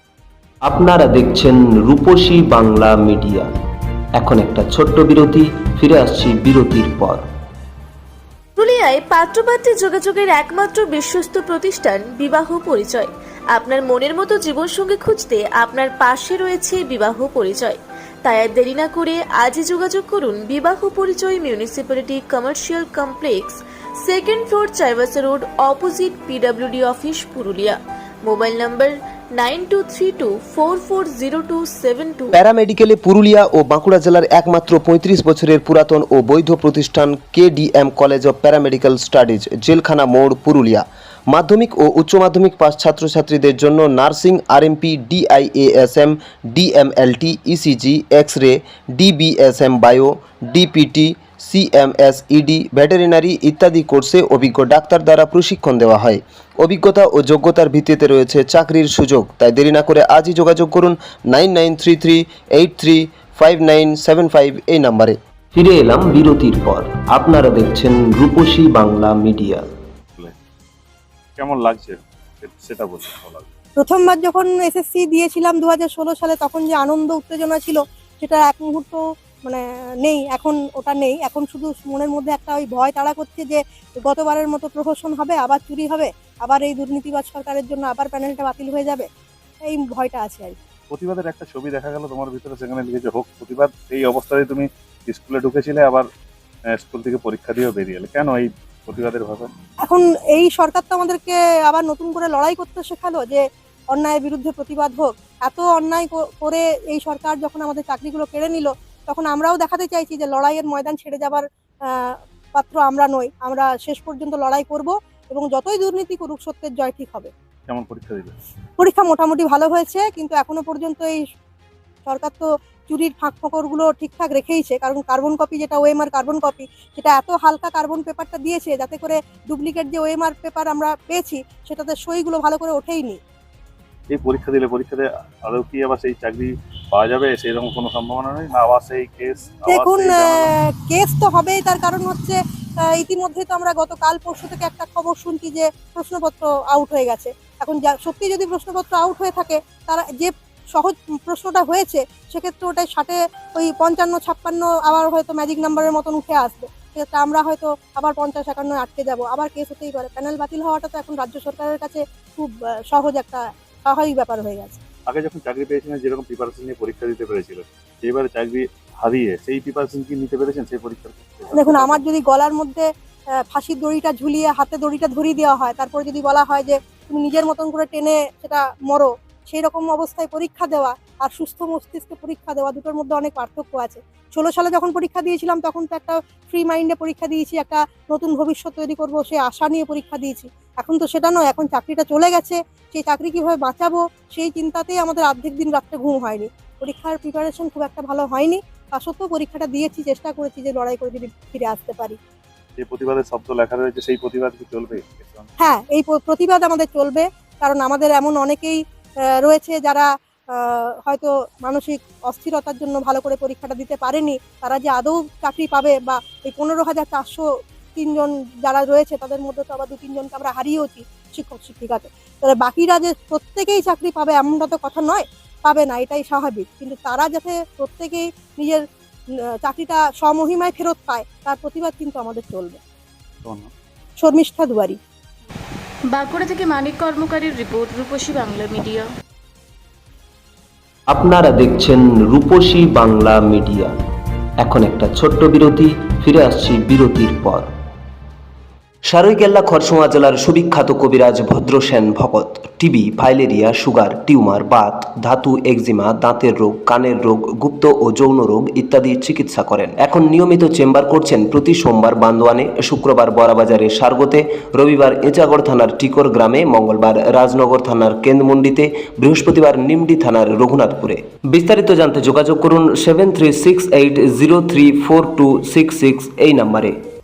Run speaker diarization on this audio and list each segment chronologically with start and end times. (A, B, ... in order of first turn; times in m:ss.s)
0:00.6-0:03.5 A
0:04.1-0:07.2 A
0:08.6-0:32.4 B
0:32.3-1:09.6 A
1:11.4-1:13.5 C
1:13.8-1:29.1 D
1:29.6-1:30.6 D
1:30.9-1:36.1 C
1:36.7-1:39.5 C
1:39.8-1:57.3 D
1:57.7-1:58.3 C
1:58.8-2:01.2 D
2:02.0-2:13.2 D
2:14.1-2:20.5 C
2:19.6-2:44.8 D
2:45.1-2:52.0 C
2:51.5-3:22.2 D
3:22.8-3:25.5 C
3:25.6-3:28.8 D
3:29.4-3:48.8 D
3:49.6-3:52.8 D
3:53.4-3:53.7 C
3:54.2-3:55.0 D
3:56.1-3:59.0 E
4:01.1-4:04.0 A
4:04.6-4:07.7 A
4:09.1-4:37.0 A